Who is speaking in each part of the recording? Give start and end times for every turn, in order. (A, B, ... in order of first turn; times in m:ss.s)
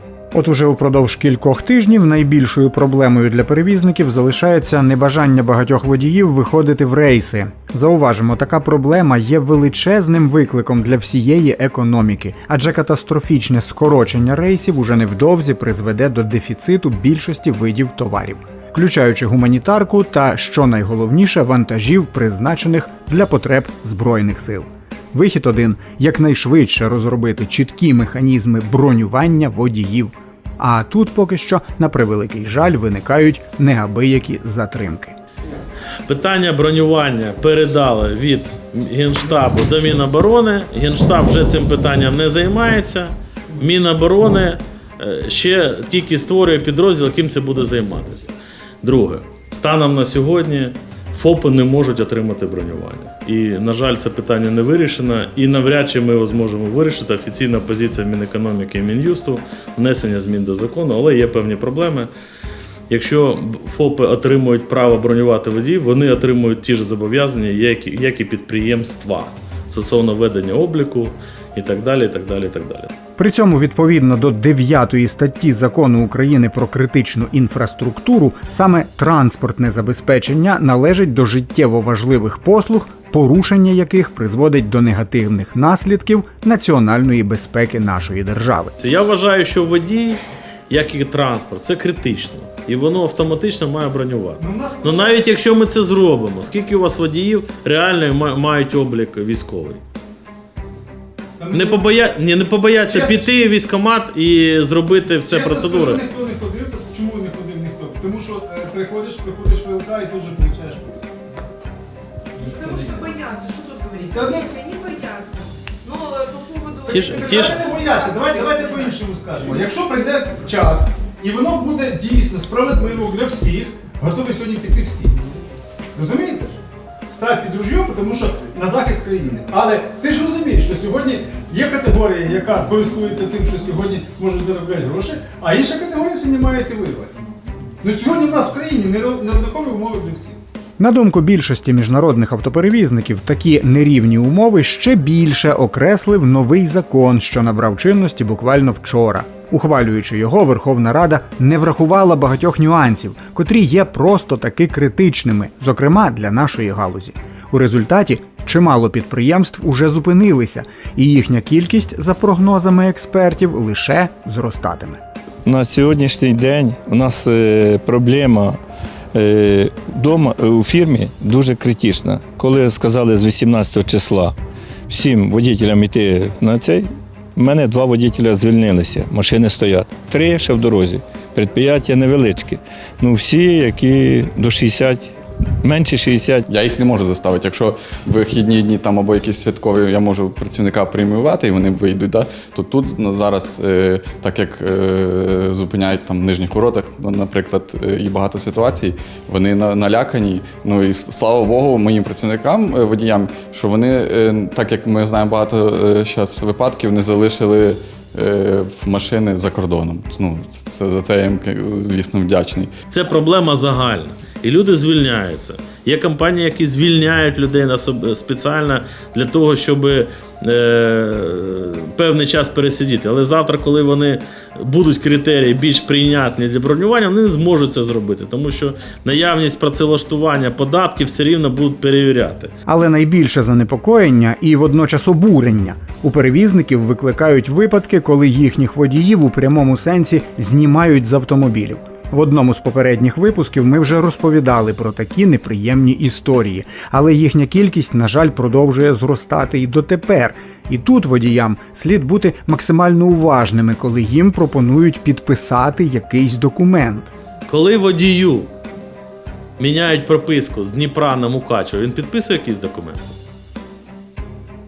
0:00.3-0:35.2 A
0:36.1-1:02.1 B
1:02.9-1:12.9 B
1:13.2-1:28.7 A
1:28.8-1:39.8 B
1:34.4-1:35.4 C
1:41.4-1:41.8 C
1:41.5-1:46.0 B
1:42.8-1:43.3 C
1:45.2-1:51.2 C
1:52.4-1:53.2 C
1:52.6-1:58.6 D
1:54.1-1:54.6 C
1:56.9-2:05.1 C
1:56.9-1:57.6 B
2:06.0-2:17.1 C
2:17.8-2:20.4 C
2:20.8-2:45.0 A
2:45.4-2:48.6 E
2:49.1-2:54.4 E
2:54.9-3:05.1 E
3:05.6-3:06.4 E
3:06.5-3:32.7 F
3:32.9-3:52.5 B
3:52.7-4:17.1 A
4:17.5-4:18.5 B
4:19.6-4:23.1 B